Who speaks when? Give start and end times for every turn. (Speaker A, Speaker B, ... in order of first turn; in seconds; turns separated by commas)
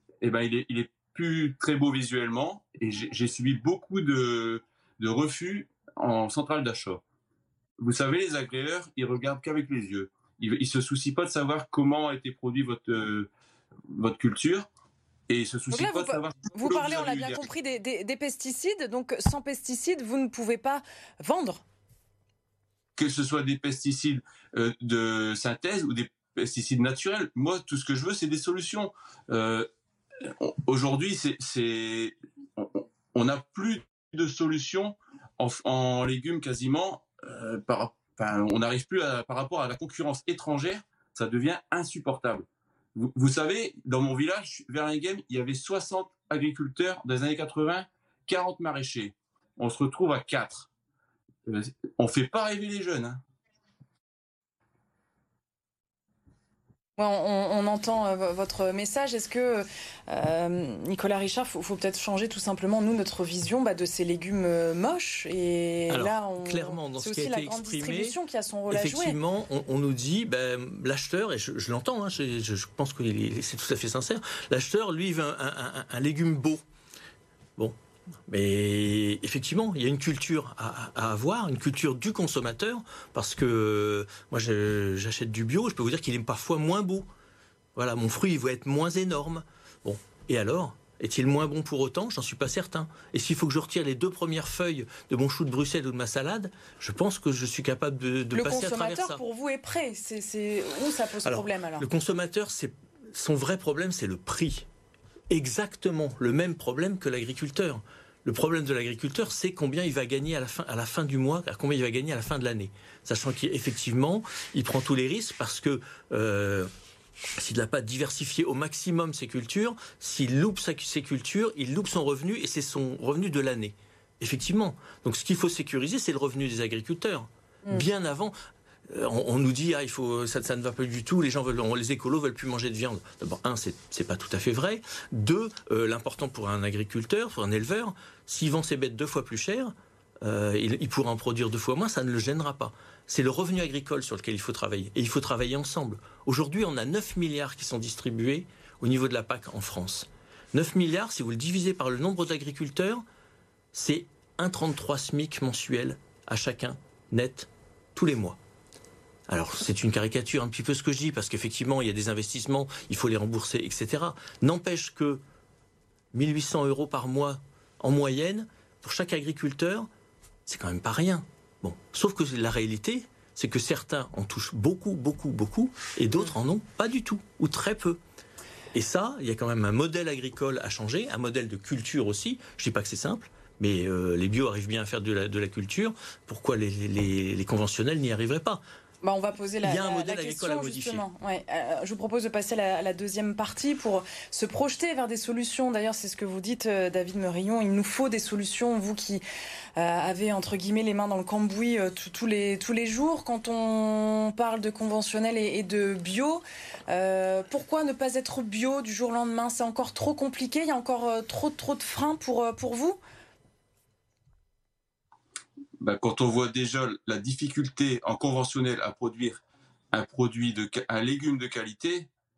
Speaker A: 0.2-7.0, Speaker A: 7.8-13.3, Speaker A: 13.9-14.7, Speaker A: 15.3-17.4, Speaker B: 15.7-21.6, Speaker A: 23.0-29.7, Speaker A: 30.2-50.7, Speaker A: 51.5-53.2, Speaker B: 57.0-69.2, Speaker C: 65.9-68.2, Speaker C: 68.7-76.6, Speaker C: 78.3-87.0, Speaker C: 87.7-99.2, Speaker B: 98.3-101.8, Speaker C: 101.2-104.7, Speaker C: 105.3-116.7, Speaker C: 117.4-128.3, Speaker C: 128.9-153.0, Speaker C: 153.7-158.4, Speaker C: 159.3-165.2, Speaker C: 166.1-169.9, Speaker C: 170.4-178.0, Speaker C: 178.7-188.6, Speaker B: 189.0-199.2, Speaker C: 189.6-191.0, Speaker B: 199.8-213.0, Speaker A: 215.8-219.4, Speaker A: 219.9-222.1